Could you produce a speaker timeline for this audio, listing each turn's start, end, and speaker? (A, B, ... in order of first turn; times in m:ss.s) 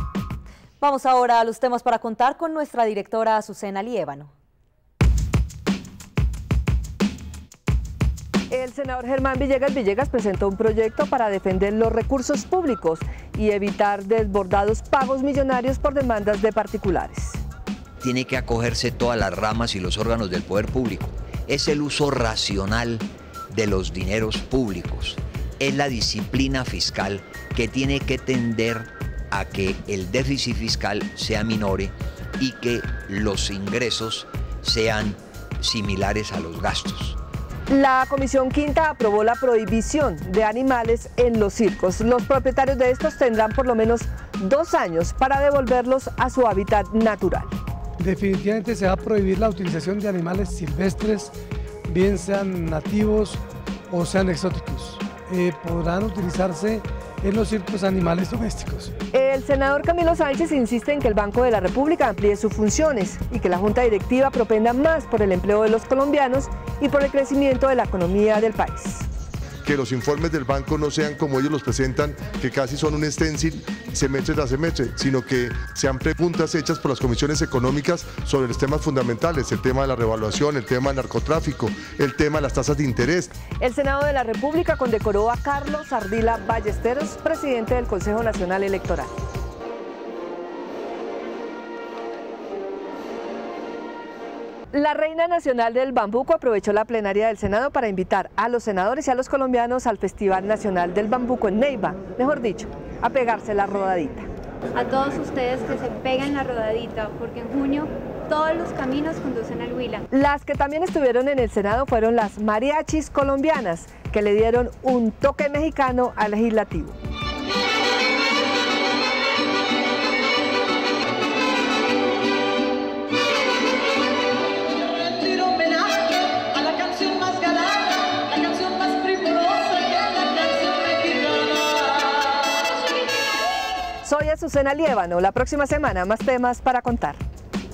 0:00.8-0:04.3 A
0:08.5-0:17.4 B
0:18.0-0:37.2 C
0:37.7-0:47.5 B
0:48.0-0:51.3 D
0:51.9-0:58.9 D
0:59.1-1:09.0 B
1:09.6-1:23.3 E
1:23.6-1:29.1 B
1:34.7-1:44.2 B
1:44.7-1:50.0 F
1:50.2-1:56.9 B
2:14.0-2:17.2 B